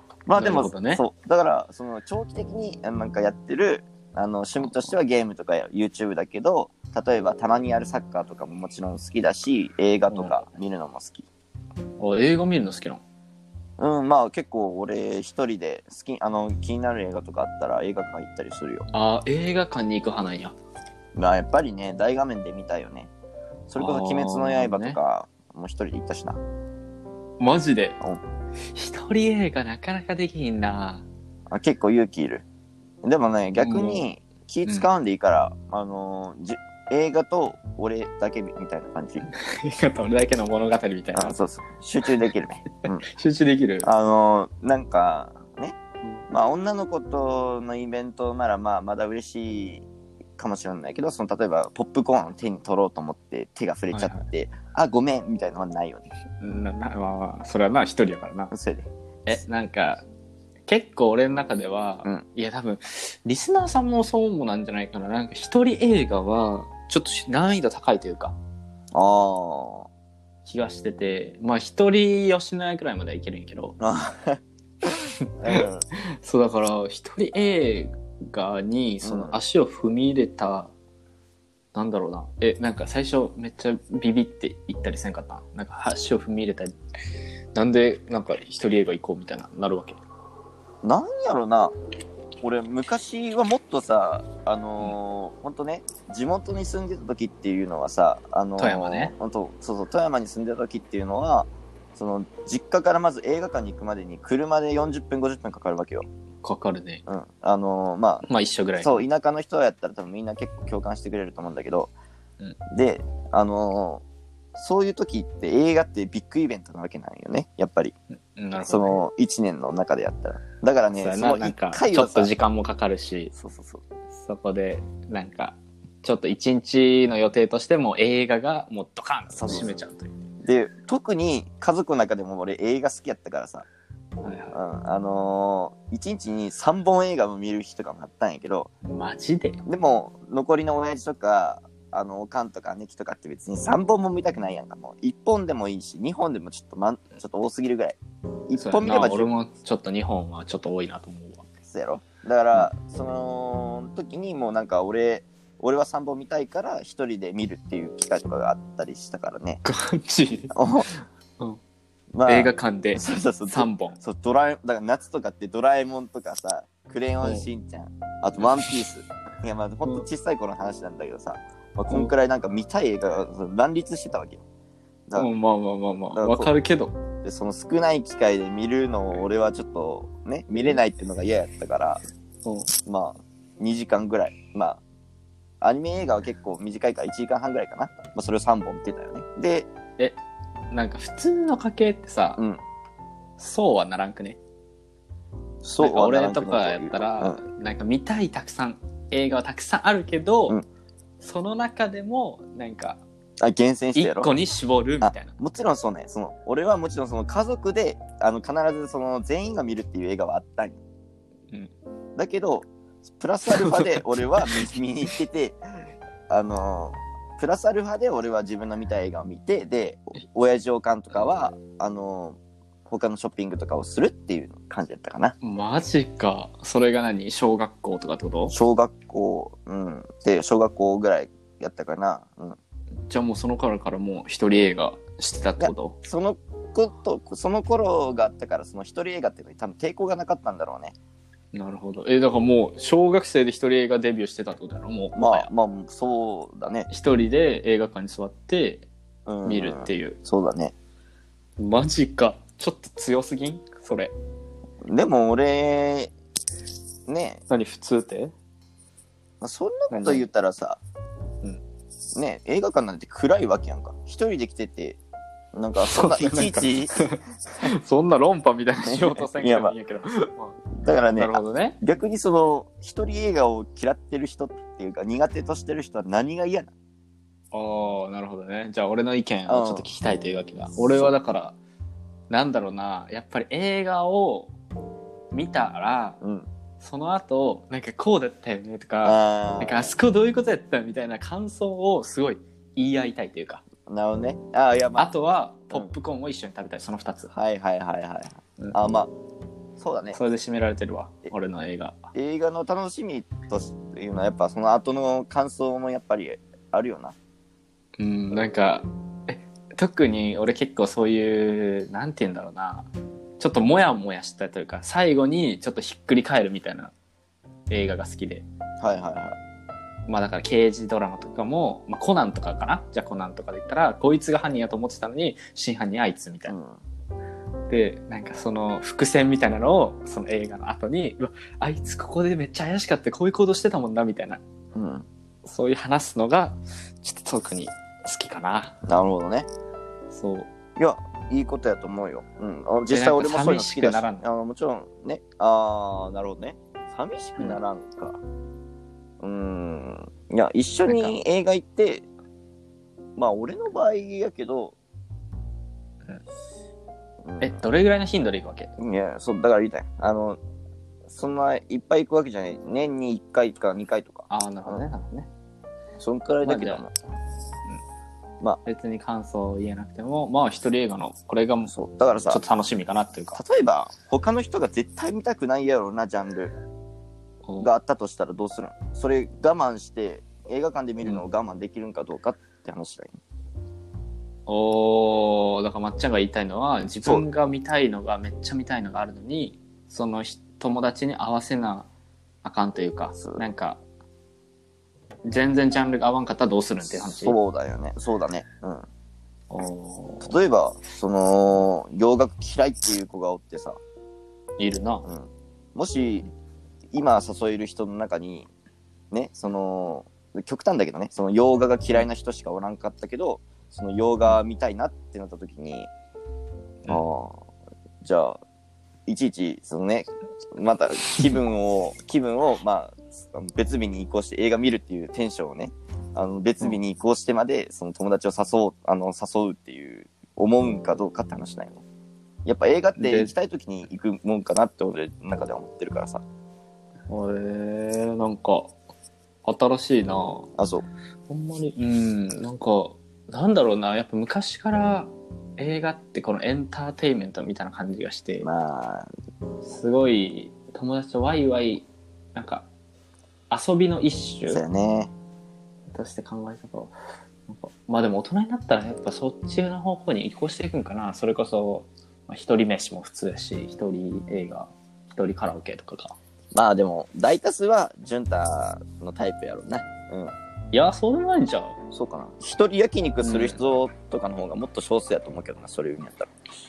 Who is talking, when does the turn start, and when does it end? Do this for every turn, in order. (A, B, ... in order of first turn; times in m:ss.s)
0:00.3-0:11.3 A
0:00.4-0:01.0 B
0:10.1-0:10.4 B
0:12.0-0:13.0 B
0:13.8-0:18.9 A
0:18.9-0:20.5 B
0:21.1-0:23.1 A
0:23.7-0:26.4 A
0:23.8-0:25.0 B
0:27.4-0:28.0 B
0:28.7-0:31.1 B
0:31.5-0:32.4 A
0:33.0-0:39.2 A
0:33.6-0:34.0 B
0:39.2-0:41.4 B
0:41.1-0:43.0 A
0:43.0-0:43.9 B
0:43.8-0:45.8 A
0:46.3-0:49.8 A
0:50.4-0:56.0 A
0:53.9-0:54.2 B
0:56.4-0:58.5 B
0:58.5-0:58.9 A
0:59.2-1:00.0 B
1:00.7-1:08.4 B
1:08.9-1:09.9 A
1:10.4-1:13.8 B
1:13.8-1:14.4 A
1:15.2-1:20.7 B
1:15.4-1:15.8 A
1:19.0-1:19.4 A
1:21.7-1:26.7 B
1:27.5-1:30.0 B
1:30.8-1:31.7 A
1:32.4-1:46.1 A
1:38.6-1:39.1 B
1:46.4-1:47.0 B
1:47.1-1:48.2 A
1:48.3-1:49.0 B
1:48.8-1:51.9 A
1:52.7-1:54.0 A
1:54.5-1:57.9 A
1:58.3-1:59.0 B
1:58.6-2:02.3 A
2:01.0-2:03.3 B
2:03.3-2:03.8 A
2:04.2-2:10.1 B
2:09.4-2:09.7 A
2:10.4-2:13.6 A
2:14.2-2:14.6 B
2:14.5-2:18.7 A
2:18.8-2:19.6 B
2:19.6-2:28.0 A
2:28.5-2:29.3 A
2:28.6-2:31.5 B
2:31.6-2:39.6 A
2:39.6-2:41.6 B
2:40.5-2:40.9 A
2:42.1-2:54.4 A
2:42.2-2:44.0 B
2:48.4-2:48.8 B
2:55.2-2:57.0 B
2:56.1-2:56.5 A
2:57.2-3:02.0 A
3:02.4-3:02.7 B
3:02.8-3:04.8 A
3:05.6-3:09.7 A
3:10.7-3:12.4 B
3:13.4-3:14.4 B
3:15.6-3:17.4 A
3:15.7-3:20.6 B
3:21.2-3:23.0 B
3:23.4-3:24.3 A
3:23.9-3:25.3 B
3:25.0-3:30.8 A
3:32.2-3:35.6 A
3:33.5-3:34.5 B
3:36.3-3:45.4 A
3:45.4-3:48.5 B
3:48.5-3:52.6 A
3:53.1-3:56.0 B
3:55.6-4:00.9 A
4:01.5-4:05.5 B
4:05.1-4:06.9 A
4:06.9-4:08.9 B
4:09.2-4:10.7 A
4:09.4-4:10.2 B
4:11.6-4:14.1 B
4:14.8-4:16.1 A
4:17.1-4:17.4 A
4:17.5-4:18.3 B
4:19.4-4:20.8 A
4:19.9-4:20.3 B
4:22.1-4:25.0 A
4:25.5-4:27.7 A
4:25.8-4:31.8 B
4:28.8-4:29.7 A
4:30.7-4:36.7 A
4:37.5-4:41.6 B
4:39.5-4:39.9 A
4:42.3-4:44.5 B
4:45.3-4:46.2 B
4:46.2-4:46.5 A
4:46.8-4:53.6 B
4:49.0-4:49.9 A
4:53.8-4:55.1 A
4:55.0-4:57.3 B
4:57.3-4:59.1 A
4:59.8-5:00.2 A
5:00.1-5:02.0 B
5:02.1-5:07.2 A
5:08.0-5:16.9 B
5:17.7-5:18.4 B
5:18.8-5:19.4 A
5:20.1-5:26.5 B
5:26.5-5:26.8 A
5:27.7-5:34.4 B
5:34.7-5:35.1 A
5:35.4-5:38.8 B
5:38.8-5:39.5 A
5:40.1-5:40.5 B
5:40.8-5:48.2 A
5:42.9-5:44.2 B
5:49.2-5:52.0 A
5:50.9-5:51.2 B
5:53.2-5:54.8 A
5:57.2-5:57.6 A
5:57.4-5:58.7 B
5:58.8-6:00.4 A
6:01.1-6:04.8 A
6:04.3-6:05.3 B
6:06.0-6:06.9 A
6:06.4-6:06.8 B
6:08.6-6:11.7 B
6:11.7-6:12.4 A
6:12.3-6:13.4 B
6:13.3-6:16.5 A
6:17.6-6:23.2 A
6:24.5-6:31.9 B
6:27.0-6:27.3 A
6:32.4-6:33.8 B
6:33.2-6:33.4 A
6:35.2-6:37.4 B
6:36.8-6:38.9 A
6:39.5-6:40.4 B
6:40.2-6:43.8 A
6:44.6-6:45.1 B
6:45.0-6:46.3 A
6:46.9-6:48.5 A
6:49.1-6:55.9 A
6:56.9-6:57.4 A
6:58.0-6:58.4 A
6:59.0-7:11.8 A
7:12.4-7:16.2 A
7:13.0-7:13.3 B
7:17.1-7:18.7 B
7:19.4-7:20.5 B
7:20.6-7:20.8 A
7:21.3-7:28.5 B
7:28.4-7:29.1 A
7:29.6-7:32.7 B
7:33.5-7:34.6 B
7:34.5-7:35.1 A
7:35.9-7:36.9 B
7:37.5-7:46.2 B
7:46.5-7:50.3 A
7:50.7-7:51.8 B
7:51.9-7:56.3 A
7:53.2-7:53.6 B